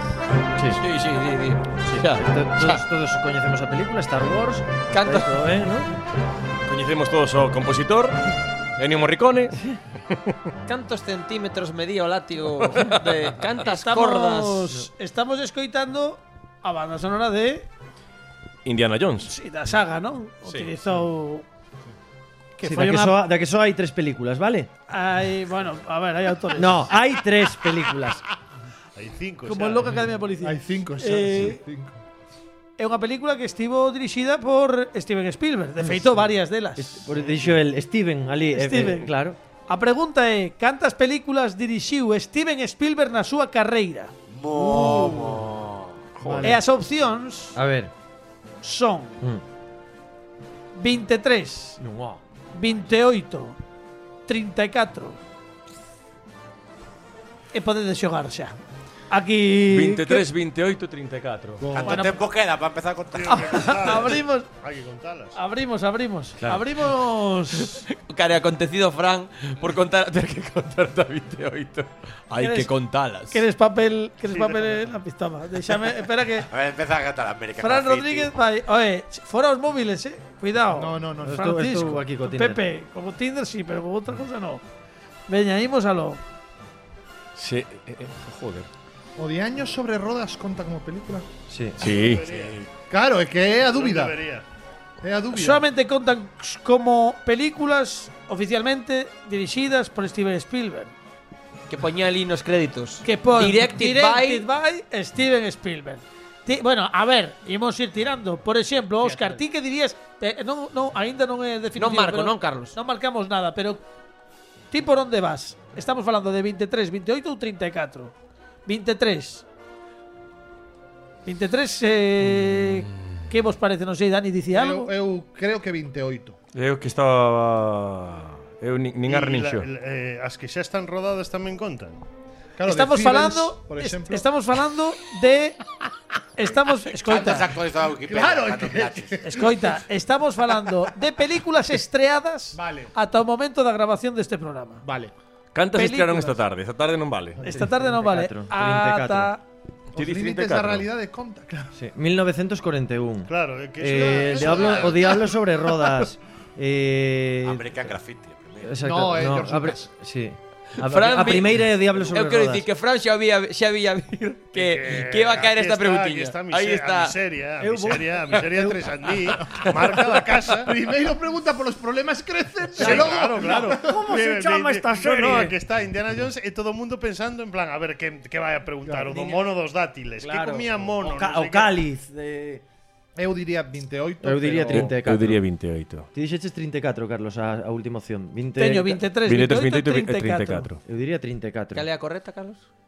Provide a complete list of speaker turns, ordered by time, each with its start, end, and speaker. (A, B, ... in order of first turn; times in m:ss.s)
0:00.7-0:02.8 A
0:01.9-0:06.0 B
0:04.9-0:05.3 A
0:06.7-0:08.2 C
0:08.8-0:09.6 C
0:10.7-0:14.7 A
0:12.6-0:13.3 C
0:13.6-0:17.7 D
0:18.6-0:19.3 C
0:19.2-0:21.4 D
0:22.6-0:23.2 D
0:22.6-0:24.7 B
0:24.9-0:26.9 D
0:26.5-0:28.2 B
0:29.0-0:30.1 E
0:29.5-0:31.6 D
0:30.4-0:32.0 F
0:32.8-0:37.1 D
0:36.8-0:39.4 B
0:38.5-0:39.1 D
0:39.7-0:44.1 D
0:44.3-0:45.7 G
0:44.5-0:45.4 F
0:46.2-0:46.6 C
0:46.2-0:46.6 F
0:46.4-0:47.6 D
0:47.6-0:47.9 B
0:48.6-0:49.2 D
0:50.8-0:51.8 D
0:51.8-0:52.2 B
0:52.5-0:53.6 D
0:54.3-0:55.2 D
0:57.5-0:58.6 D
0:59.1-1:00.2 D
0:59.7-1:01.7 C
1:01.6-1:02.1 F
1:01.7-1:03.7 G
1:01.8-1:02.3 D
1:03.1-1:05.4 E
1:03.3-1:04.5 D
1:05.4-1:07.8 D
1:07.7-1:13.4 A
1:12.4-1:12.7 D
1:13.3-1:16.5 D
1:14.3-1:14.8 E
1:16.5-1:18.3 G
1:17.6-1:24.6 D
1:20.7-1:21.5 F
1:21.2-1:22.6 B
1:25.3-1:26.2 D
1:27.4-1:28.7 C
1:29.2-1:31.3 F
1:31.5-1:31.8 B
1:31.8-1:32.5 C
1:31.8-1:32.7 E
1:32.9-1:34.2 F
1:33.6-1:34.4 E
1:35.0-1:35.6 F
1:35.3-1:40.9 D
1:41.7-1:44.5 A
1:43.0-1:53.8 D
1:49.0-1:49.4 A
1:51.8-1:52.8 A
1:54.7-1:58.1 D
1:58.7-1:59.4 D
2:01.3-2:04.9 D
2:02.4-2:02.8 C
2:04.5-2:06.4 F
2:06.5-2:09.7 C
2:09.1-2:12.0 E
2:12.6-2:14.3 F
2:12.7-2:15.6 D
2:16.4-2:17.6 D
2:17.0-2:19.3 G
2:18.0-2:19.5 F
2:19.2-2:24.8 D
2:22.5-2:22.9 F
2:24.8-2:25.1 F
2:25.5-2:27.4 C
2:25.8-2:26.4 D
2:27.4-2:29.3 B
2:27.4-2:29.4 D
2:29.9-2:31.7 F
2:30.0-2:30.9 C
2:31.7-2:37.9 B
2:33.3-2:35.3 E
2:34.1-2:34.4 F
2:34.3-2:35.2 G
2:37.4-2:38.8 G
2:38.6-2:42.7 B
2:38.8-2:39.9 F
2:40.8-2:47.2 A
2:44.6-2:50.8 E
2:47.6-2:48.8 B
2:50.6-2:54.0 F
2:52.7-3:01.8 E
2:52.8-2:55.6 B
2:58.9-2:59.4 F
3:00.2-3:02.6 B
3:03.2-3:05.0 F
3:04.2-3:05.4 B
3:04.7-3:06.1 C
3:06.1-3:09.0 B
3:08.6-3:10.7 D
3:09.3-3:10.8 C
3:10.9-3:11.9 B
3:11.7-3:12.6 A